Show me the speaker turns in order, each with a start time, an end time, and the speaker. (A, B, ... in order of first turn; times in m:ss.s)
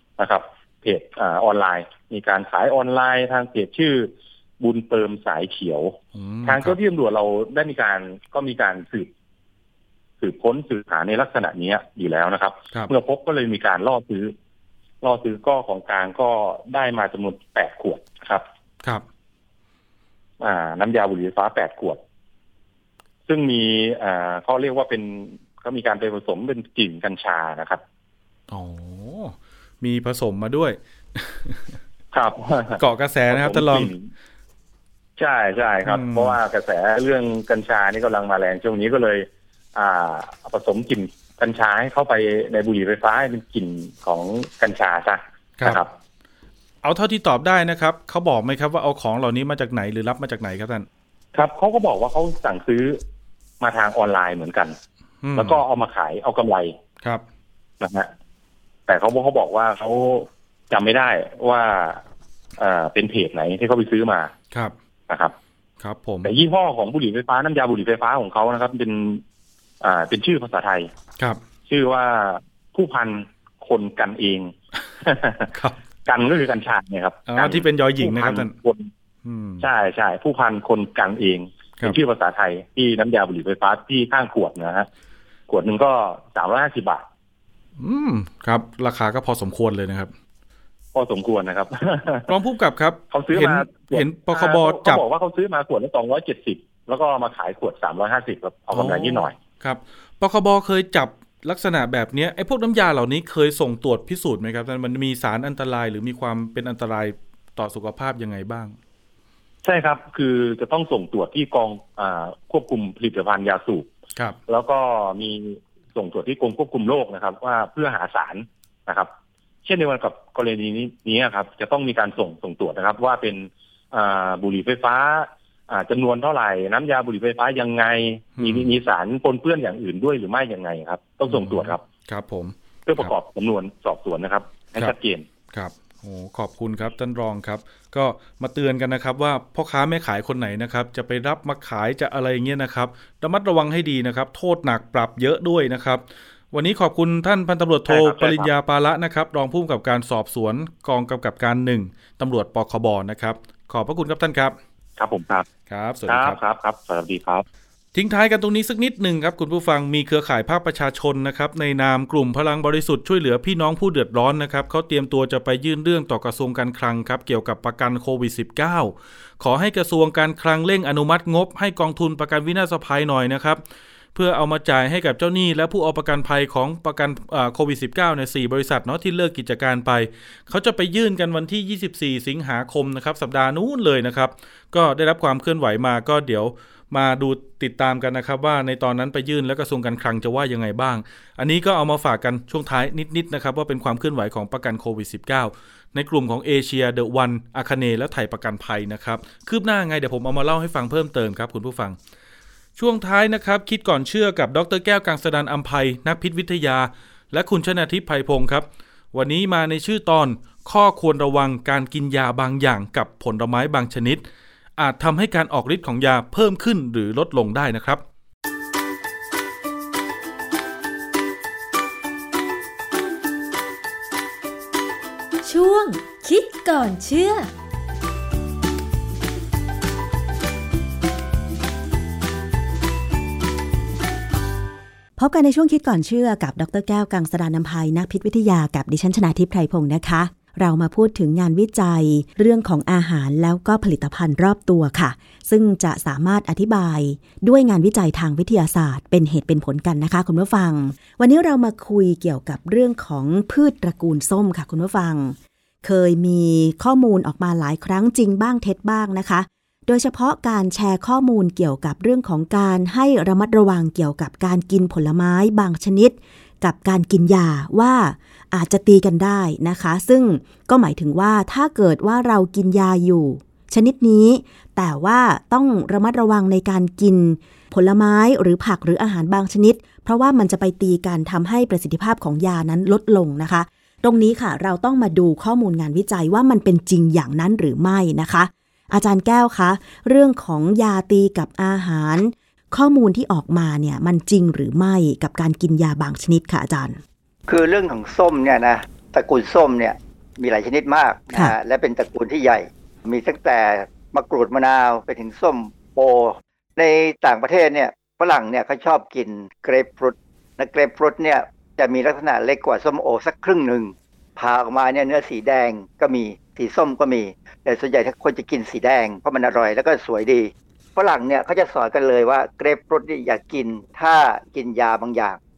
0:00.2-0:09.1 A
0:06.1-0:06.8 B
0:10.2-0:14.3 A
0:15.0-0:18.4 A
0:20.4-0:22.0 A
0:23.3-0:27.8 A
0:28.5-0:31.8 B
0:32.1-0:34.1 A
0:32.8-0:33.9 B
0:35.2-0:45.9 A
0:35.8-0:36.4 B
0:46.8-0:50.9 B
0:51.3-0:53.0 A
0:53.6-0:54.8 A
0:55.2-0:55.6 B
0:55.3-0:56.8 A
0:57.8-0:58.1 A
0:58.9-1:02.0 A
1:02.6-1:04.3 A
1:05.1-1:05.3 A
1:05.8-1:06.3 B
1:06.2-1:09.2 A
1:09.8-1:10.9 A
1:11.7-1:15.5 A
1:15.5-1:15.8 B
1:16.0-1:18.9 A
1:17.3-1:18.5 B
1:19.2-1:19.7 B
1:19.6-1:24.9 A
1:25.5-1:27.1 A
1:27.8-1:30.1 B
1:30.9-1:32.3 A
1:32.3-1:35.0 B
1:33.1-1:39.4 A
1:38.7-1:48.7 B
1:49.6-1:53.9 A
1:54.5-1:59.1 A
1:59.6-2:11.8 A
2:08.4-2:08.7 B
2:11.3-2:13.1 B
2:12.8-2:15.2 A
2:15.5-2:34.6 B
2:27.9-2:28.5 A
2:35.0-2:35.5 A
2:35.7-2:36.4 B
2:36.1-2:37.4 A
2:37.9-2:53.6 B
2:54.1-3:22.0 B
3:22.8-3:34.2 B
3:34.8-3:38.0 B
3:45.4-3:47.5 C
3:55.2-4:57.0 D
4:57.5-5:25.4 E